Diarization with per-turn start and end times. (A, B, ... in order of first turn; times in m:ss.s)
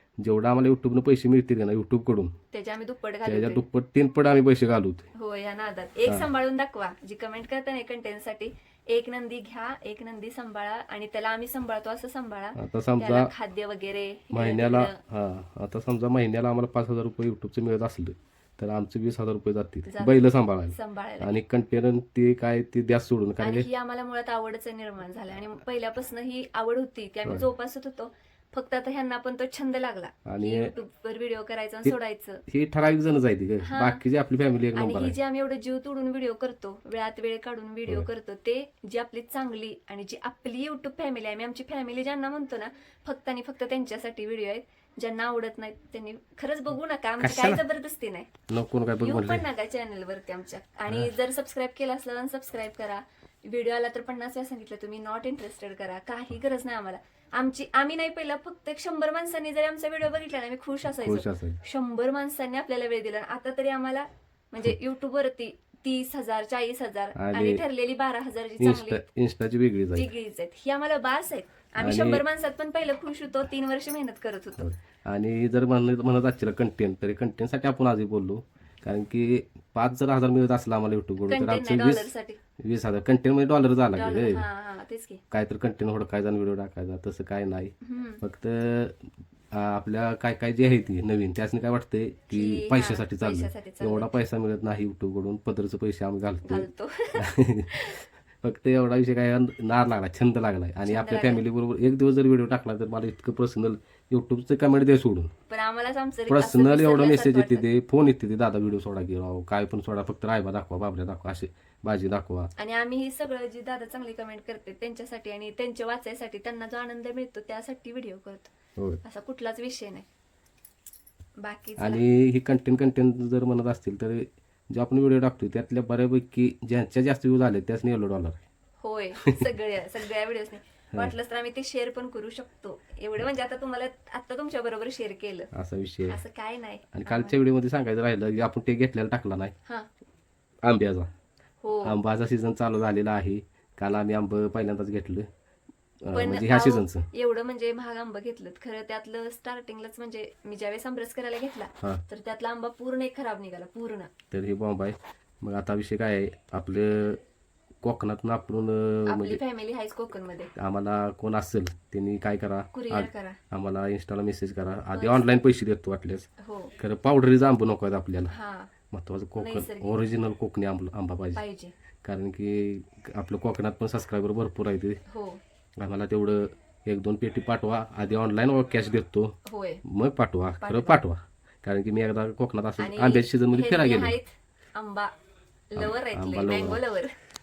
0:00.2-0:02.3 A
0:02.5-0:03.6 B
0:03.2-0:05.1 A
0:05.2-0:15.0 B
0:12.6-0:13.3 A
0:14.3-0:23.7 A
0:19.9-0:21.3 B
0:23.4-0:32.4 B
0:30.3-0:30.7 A
0:32.5-0:35.2 A
0:33.7-0:34.0 B
0:34.8-0:48.3 B
0:47.2-0:47.6 A
0:48.5-0:49.4 A
0:49.0-1:09.0 B
1:01.0-1:01.6 A
1:07.2-1:07.6 A
1:08.6-1:10.1 A
1:10.0-1:14.7 B
1:11.8-1:12.2 A
1:14.6-1:24.4 A
1:21.3-1:22.4 B
1:24.0-1:25.2 B
1:25.3-1:29.0 A
1:27.8-1:28.2 B
1:29.5-1:36.7 A
1:32.3-1:34.1 B
1:36.5-1:38.0 B
1:37.2-1:37.7 A
1:38.4-1:45.3 A
1:40.9-1:41.4 B
1:45.5-1:47.6 B
1:46.3-1:52.5 A
1:52.6-1:58.5 B
1:59.0-2:00.1 B
2:01.4-2:02.0 B
2:01.8-2:08.4 A
2:08.8-2:15.5 B
2:15.5-2:16.2 A
2:16.1-2:17.4 B
2:16.9-2:19.6 A
2:20.6-2:21.1 A
2:21.6-2:22.0 B
2:21.8-2:25.3 A
2:26.0-2:27.1 A
2:26.1-2:34.1 B
2:34.3-2:37.2 A
2:37.8-2:39.4 A
2:39.1-2:40.5 B
2:40.6-2:48.3 A
2:42.7-2:43.4 B
2:44.9-2:45.3 B
2:46.4-2:46.8 B
2:48.3-2:48.7 B
2:48.9-2:51.4 A
2:49.4-2:49.9 B
2:51.4-2:51.7 B
2:52.0-2:55.0 A
2:55.1-2:55.4 B
2:55.8-3:04.2 A
2:59.5-2:59.8 B
3:00.6-3:01.0 B
3:02.8-3:05.1 B
3:05.7-3:07.1 B
3:05.8-3:06.8 A